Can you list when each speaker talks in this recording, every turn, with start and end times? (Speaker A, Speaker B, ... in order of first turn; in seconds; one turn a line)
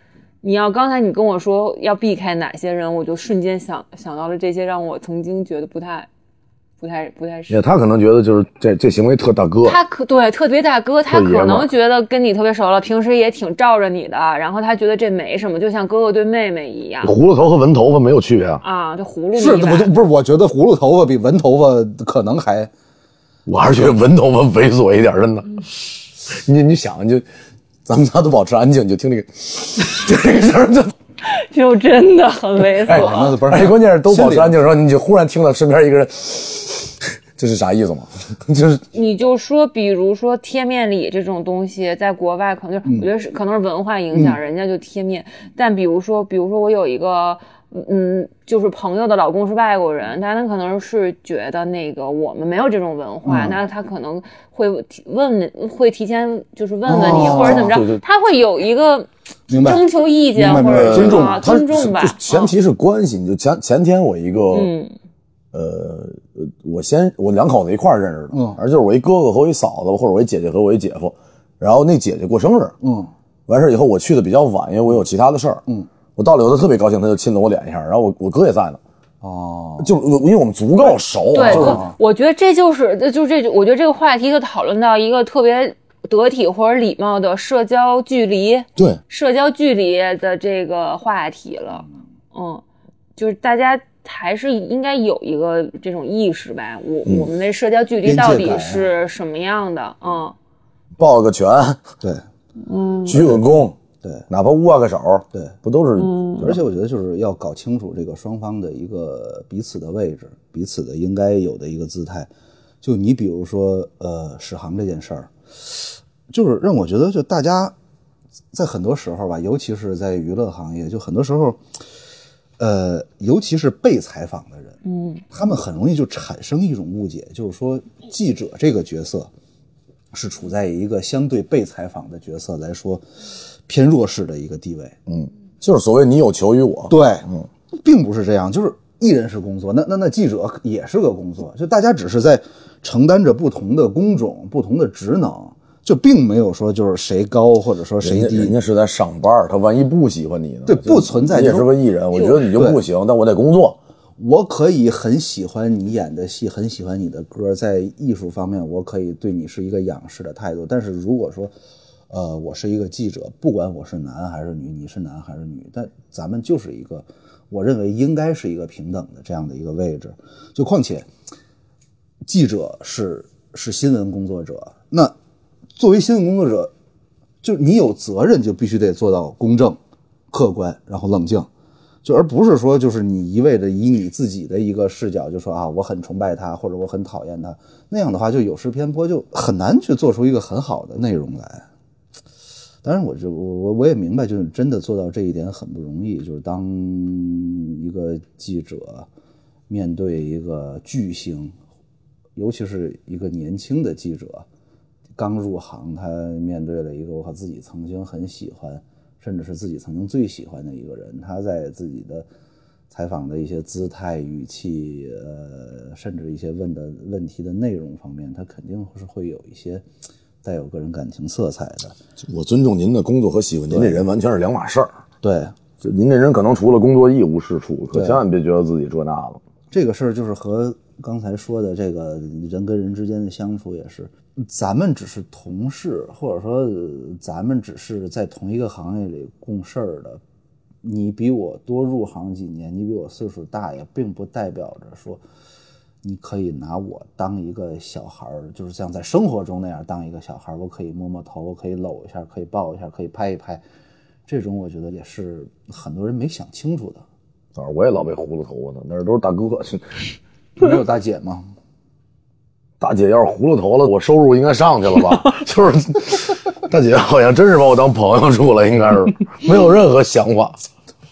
Speaker A: 0.4-6.1
Speaker A: 6.8-7.6
Speaker B: 7.5-9.8
Speaker A: 9.6-17.1
Speaker B: 11.1-11.7
Speaker B: 17.0-18.6
Speaker A: 18.6-19.9
Speaker C: 19.4-22.7
Speaker B: 23.5-25.7
Speaker B: 26.3-27.2
Speaker B: 27.9-30.9
Speaker A: 31.2-33.4
Speaker B: 32.9-38.8
Speaker C: 32.9-34.6
Speaker A: 38.9-62.5
Speaker C: 44.1-44.4
Speaker C: 53.2-53.6
Speaker C: 56.9-57.8
Speaker B: 57.1-58.0
Speaker C: 59.5-61.5
Speaker B: 60.6-64.7
Speaker A: 64.5-64.9
Speaker B: 65.5-72.8
Speaker C: 68.3-68.6
Speaker C: 72.8-73.1
Speaker B: 73.5-75.6
Speaker B: 76.2-78.8
Speaker C: 79.2-80.0
Speaker B: 79.8-81.8
Speaker A: 81.3-92.6
Speaker C: 81.4-82.0
Speaker A: 93.2-100.3
Speaker C: 98.0-98.9
Speaker B: 101.0-101.8
Speaker A: 102.6-103.2
Speaker B: 103.1-103.8
Speaker C: 103.2-103.4
Speaker B: 104.3-106.6
Speaker A: 106.0-106.5
Speaker C: 106.4-112.3
Speaker C: 112.8-117.7
Speaker C: 118.5-121.6
Speaker C: 122.6-124.8
Speaker A: 124.8-125.2
Speaker C: 125.3-129.3
Speaker C: 130.1-133.0
Speaker C: 133.7-135.0
Speaker B: 135.1-137.5
Speaker C: 136.9-148.6
Speaker B: 148.0-153.8
Speaker C: 150.7-151.7
Speaker A: 152.2-152.4
Speaker C: 152.5-152.8
Speaker C: 154.2-161.5
Speaker C: 162.1-171.1
Speaker C: 172.2-175.2
Speaker C: 175.8-176.7
Speaker C: 177.4-179.8
Speaker C: 180.3-181.5
Speaker C: 182.0-191.7
Speaker C: 192.8-199.1
Speaker C: 199.7-201.6
Speaker C: 202.4-204.4
Speaker C: 205.2-212.3
Speaker C: 212.9-219.8
Speaker C: 220.4-222.0
Speaker B: 222.2-224.9
Speaker C: 223.7-224.1
Speaker C: 225.2-225.6
Speaker B: 225.8-229.4
Speaker C: 227.9-228.2
Speaker C: 229.7-240.2
Speaker C: 240.8-245.2
Speaker C: 246.0-253.6
Speaker C: 254.3-257.0
Speaker B: 257.6-259.8
Speaker C: 260.6-261.4
Speaker B: 262.8-270.6